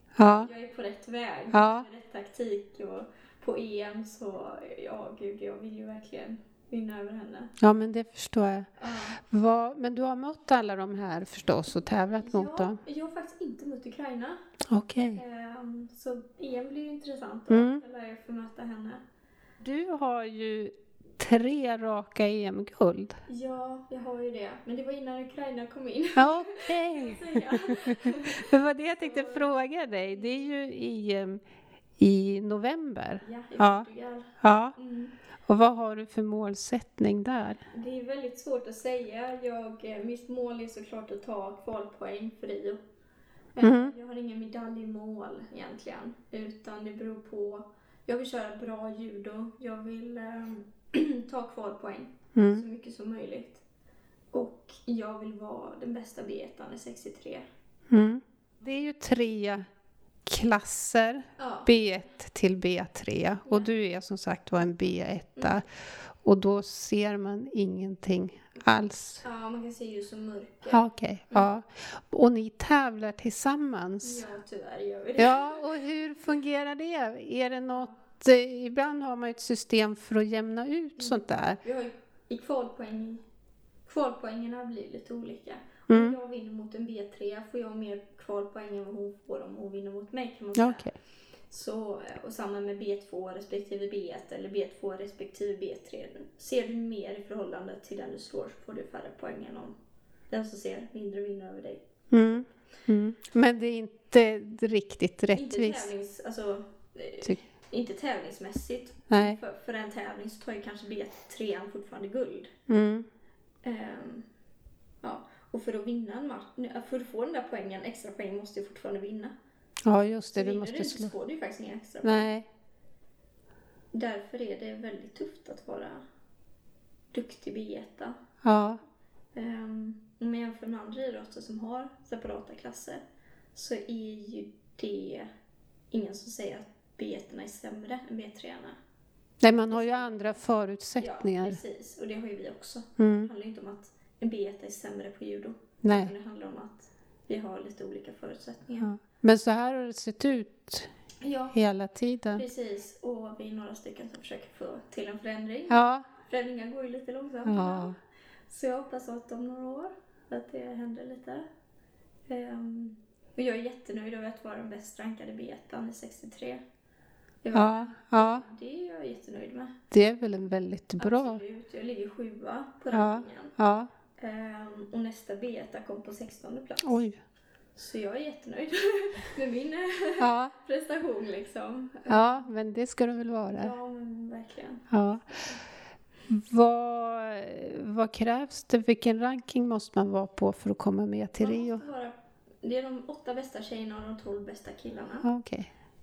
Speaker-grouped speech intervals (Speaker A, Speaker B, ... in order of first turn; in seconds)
Speaker A: 0.2-0.5, 1.5-1.9, 7.6-8.7, 9.2-12.8, 14.7-15.2, 17.5-17.8, 19.6-23.2, 26.1-31.4, 32.0-33.9, 34.4-34.7, 35.5-37.6, 43.6-43.9, 52.4-52.6, 57.9-59.6, 60.2-69.2, 70.7-74.2, 75.2-81.6, 85.9-86.2, 90.5-90.9, 102.1-105.9, 109.1-109.4, 112.7-113.0, 119.8-121.1, 122.0-122.5, 128.4-128.8, 139.4-141.6, 143.0-143.3, 145.8-146.1, 148.8-150.9, 151.5-152.4, 155.7-156.0, 157.4-157.9, 167.5-168.4, 169.9-171.4, 172.9-173.9, 176.8-177.2, 180.2-180.5, 182.1-183.7, 184.9-185.3, 186.3-191.8, 195.2-195.7
Speaker B: 0.2-7.5, 8.8-9.2, 12.2-14.4, 15.1-19.0, 23.3-29.5, 33.2-35.1, 37.7-42.8, 43.5-53.6, 54.3-57.4, 61.4-61.7, 63.5-63.7, 69.2-71.5, 74.0-75.6, 81.0-83.2, 83.8-90.8, 91.5-99.7, 100.3-102.4, 105.3-112.5, 113.6-114.2, 115.0-119.3, 120.3-122.3, 123.9-126.0, 127.1-128.1, 129.3-133.0, 133.5-135.3, 135.9-138.8, 139.7-140.4, 141.0-149.0, 151.2-151.6, 152.3-157.9, 158.5-161.4, 162.3-166.6, 167.4-169.8, 171.0-173.5, 174.2-177.0, 177.8-182.5, 183.5-185.6, 191.4-195.3